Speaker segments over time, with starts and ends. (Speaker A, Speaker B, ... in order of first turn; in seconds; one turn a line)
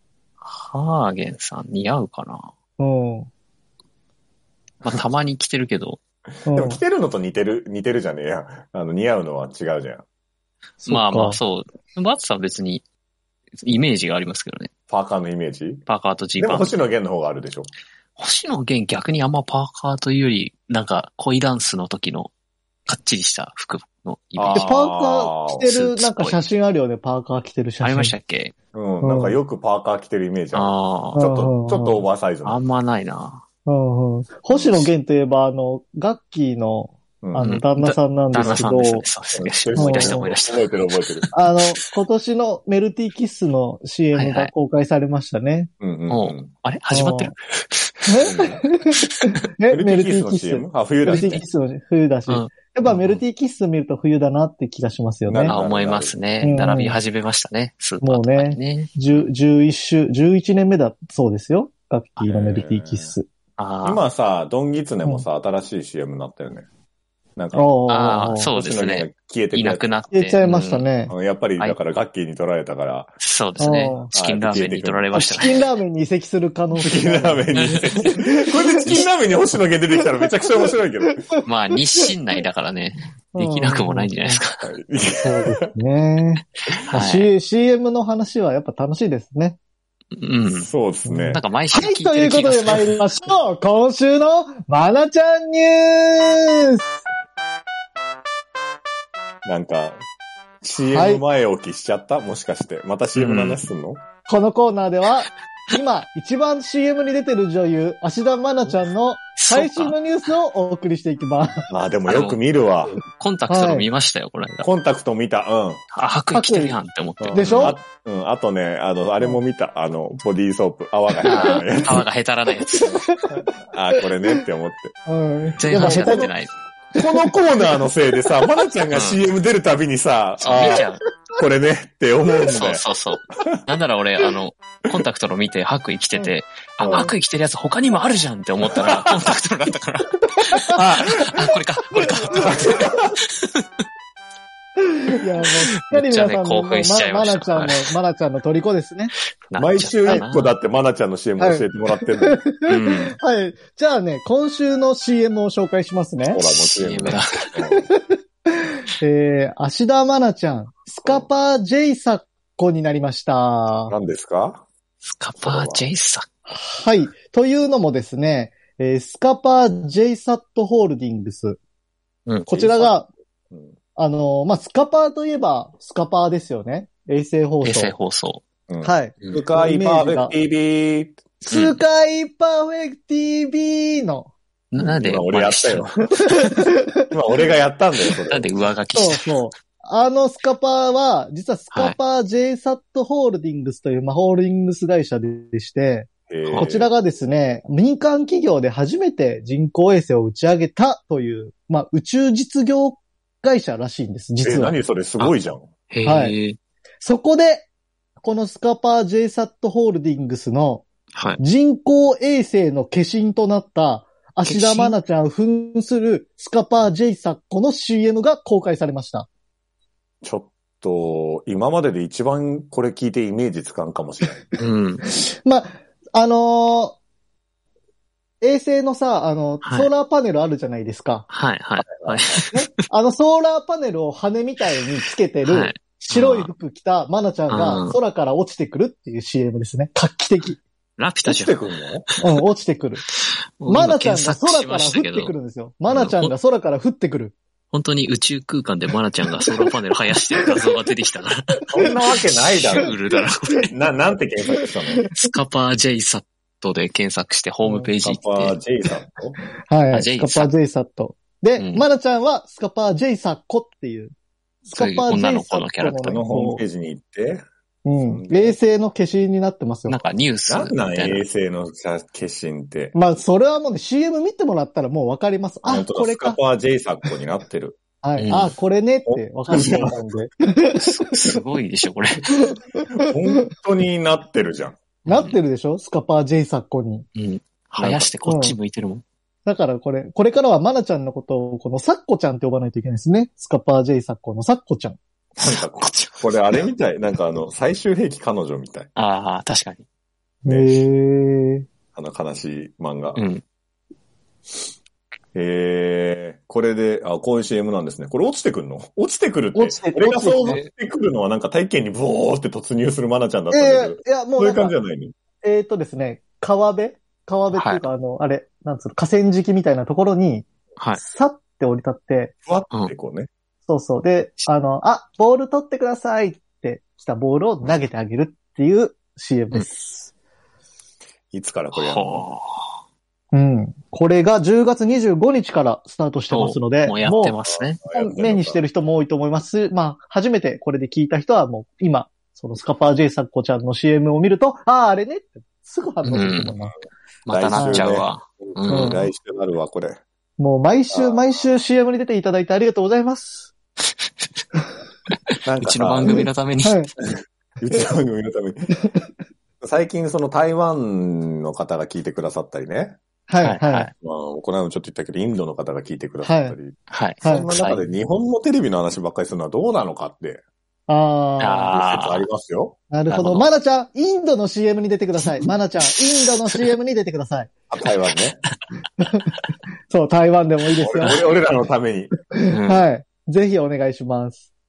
Speaker A: 0.4-2.5
Speaker B: 2.8-3.3
Speaker A: 4.8-6.0
Speaker B: 6.5-6.8
Speaker C: 6.5-10.0
Speaker B: 10.8-11.4
Speaker A: 10.8-12.8
Speaker A: 13.6-14.7
Speaker C: 14.9-15.8
Speaker A: 15.8-16.7
Speaker C: 16.4-17.7
Speaker A: 18.2-22.3
Speaker A: 22.9-24.8
Speaker C: 24.4-25.7
Speaker B: 24.5-28.1
Speaker A: 25.6-26.4
Speaker A: 27.8-28.5
Speaker C: 28.7-32.6
Speaker B: 29.0-29.4
Speaker A: 30.5-31.2
Speaker B: 31.2-32.0
Speaker A: 32.4-33.4
Speaker B: 33.6-39.1
Speaker C: 34.5-34.9
Speaker C: 37.2-37.5
Speaker A: 37.4-41.3
Speaker C: 38.4-38.6
Speaker C: 39.3-41.3
Speaker B: 39.8-40.2
Speaker B: 41.3-45.7
Speaker A: 44.1-44.5
Speaker C: 45.8-46.5
Speaker A: 46.1-48.3
Speaker B: 46.9-47.3
Speaker B: 48.0-55.5
Speaker C: 48.2-48.6
Speaker C: 49.7-51.4
Speaker A: 51.1-51.4
Speaker A: 52.3-53.2
Speaker C: 55.3-56.2
Speaker A: 55.4-59.0
Speaker B: 56.4-57.0
Speaker B: 58.0-63.3
Speaker C: 62.2-63.1
Speaker A: 63.6-64.0
Speaker C: 63.8-66.7
Speaker C: 67.3-67.7
Speaker B: 67.5-68.5
Speaker A: 67.9-70.9
Speaker C: 68.5-70.0
Speaker B: 70.1-71.1
Speaker C: 71.1-73.1
Speaker A: 73.2-75.6
Speaker B: 73.6-74.1
Speaker C: 74.1-75.5
Speaker B: 75.1-79.0
Speaker C: 76.8-81.3
Speaker A: 81.4-84.7
Speaker B: 83.3-84.4
Speaker C: 84.6-85.7
Speaker B: 85.2-89.6
Speaker A: 86.8-87.3
Speaker A: 90.2-90.7
Speaker C: 90.5-91.4
Speaker B: 91.0-96.9
Speaker A: 91.3-93.0
Speaker C: 99.4-100.0
Speaker C: 100.6-104.0
Speaker B: 100.9-101.2
Speaker A: 103.1-103.6
Speaker B: 104.2-111.7
Speaker A: 109.4-109.9
Speaker C: 111.7-113.0
Speaker A: 112.1-112.4
Speaker A: 113.2-114.7
Speaker B: 113.5-113.9
Speaker C: 114.6-115.8
Speaker A: 115.9-117.8
Speaker B: 116.3-116.8
Speaker C: 117.2-122.0
Speaker B: 117.3-117.8
Speaker A: 121.2-123.0
Speaker B: 122.8-123.5
Speaker C: 123.7-124.9
Speaker B: 125.1-126.3
Speaker A: 125.6-126.5
Speaker C: 125.7-126.3
Speaker C: 127.0-130.8
Speaker A: 128.9-129.2
Speaker A: 130.4-131.0
Speaker C: 131.4-132.8
Speaker A: 132.4-142.8
Speaker B: 136.1-137.1
Speaker C: 138.8-139.3
Speaker C: 140.7-143.2
Speaker B: 144.8-149.1
Speaker A: 145.8-147.9
Speaker A: 149.5-150.6
Speaker C: 149.6-152.4
Speaker B: 151.4-156.4
Speaker A: 152.7-153.1
Speaker C: 156.2-157.9
Speaker A: 156.4-157.5
Speaker B: 157.8-163.9
Speaker C: 163.9-164.6
Speaker A: 165.0-166.3
Speaker C: 165.4-165.9
Speaker B: 166.5-171.6
Speaker B: 172.5-173.1
Speaker C: 172.5-172.9
Speaker C: 173.5-173.8
Speaker B: 173.9-177.9
Speaker A: 177.6-178.4
Speaker C: 178.7-181.2
Speaker B: 178.8-180.3
Speaker B: 181.4-184.3
Speaker A: 181.5-181.8
Speaker A: 184.7-186.5
Speaker C: 184.8-186.1
Speaker B: 186.0-187.0
Speaker C: 187.1-188.5
Speaker A: 188.3-189.4
Speaker B: 188.9-204.8
Speaker A: 191.7-192.0
Speaker C: 196.3-196.9
Speaker A: 196.4-196.7
Speaker C: 204.4-205.7
Speaker A: 205.9-206.6
Speaker B: 206.0-206.3
Speaker B: 207.0-207.7
Speaker B: 208.2-210.8
Speaker A: 211.1-211.4
Speaker B: 211.4-219.3
Speaker A: 214.4-214.9
Speaker C: 220.2-224.4
Speaker A: 224.6-225.0
Speaker B: 225.3-227.0
Speaker B: 228.4-231.3
Speaker A: 229.6-229.9
Speaker A: 231.3-232.8
Speaker C: 231.8-232.5
Speaker B: 232.8-240.6
Speaker A: 235.4-236.5
Speaker A: 237.5-238.0
Speaker A: 241.0-241.6
Speaker C: 241.2-242.0
Speaker B: 242.2-243.0
Speaker A: 243.6-245.3
Speaker B: 243.7-247.3
Speaker A: 245.9-246.3
Speaker A: 247.7-251.6
Speaker B: 250.3-250.6
Speaker C: 251.7-252.9
Speaker A: 252.5-253.7
Speaker C: 253.7-255.0
Speaker B: 254.5-255.2
Speaker A: 255.2-258.5
Speaker B: 257.6-257.9
Speaker C: 258.0-259.4
Speaker B: 259.6-264.1
Speaker A: 259.9-260.5
Speaker A: 261.6-261.9
Speaker B: 264.6-266.6
Speaker A: 264.7-266.2
Speaker C: 266.0-267.4
Speaker B: 267.9-270.0
Speaker C: 268.0-268.6
Speaker A: 269.9-271.2
Speaker C: 270.5-272.9
Speaker B: 272.9-276.4
Speaker C: 275.6-277.8
Speaker B: 278.0-281.0
Speaker A: 278.2-278.5
Speaker C: 279.1-280.0
Speaker A: 280.8-282.2
Speaker B: 282.3-282.8
Speaker C: 283.0-284.8
Speaker B: 285.0-287.1
Speaker A: 285.1-285.4
Speaker A: 287.1-289.0
Speaker C: 287.8-288.1
Speaker B: 288.2-288.6
Speaker B: 289.4-295.0
Speaker C: 295.4-298.9
Speaker A: 295.4-296.6
Speaker A: 298.9-299.8
Speaker B: 300.4-301.7
Speaker C: 300.4-300.8
Speaker C: 301.9-303.2
Speaker A: 303.1-303.4
Speaker C: 305.3-315.1
Speaker B: 309.5-310.6
Speaker B: 313.5-314.7
Speaker B: 315.4-320.5
Speaker A: 317.5-317.8
Speaker A: 320.8-321.0
Speaker B: 321.0-322.3
Speaker C: 322.4-323.3
Speaker B: 323.6-330.1
Speaker C: 331.3-332.2
Speaker A: 331.7-332.7
Speaker B: 333.3-337.4
Speaker A: 336.3-337.8
Speaker C: 337.4-338.6
Speaker B: 337.9-346.7
Speaker A: 346.0-346.5
Speaker A: 347.2-349.1
Speaker C: 347.3-350.0
Speaker B: 347.6-347.9
Speaker B: 348.7-349.1
Speaker B: 350.4-353.5
Speaker C: 350.9-351.2
Speaker C: 355.4-356.2
Speaker A: 355.6-356.8
Speaker B: 356.1-356.9
Speaker C: 357.0-358.7
Speaker B: 358.7-359.0
Speaker C: 359.6-363.0
Speaker B: 363.3-363.9
Speaker A: 363.4-363.9
Speaker C: 364.0-370.4
Speaker B: 366.2-366.6
Speaker A: 366.9-367.8
Speaker B: 367.2-367.5
Speaker B: 370.9-371.7
Speaker A: 371.4-372.2
Speaker C: 371.7-372.8
Speaker B: 372.9-377.5
Speaker A: 373.1-373.4
Speaker A: 375.9-376.6
Speaker C: 377.7-378.4
Speaker B: 379.0-379.3
Speaker B: 379.9-381.2
Speaker C: 380.8-382.1
Speaker B: 382.3-384.4
Speaker A: 382.5-382.9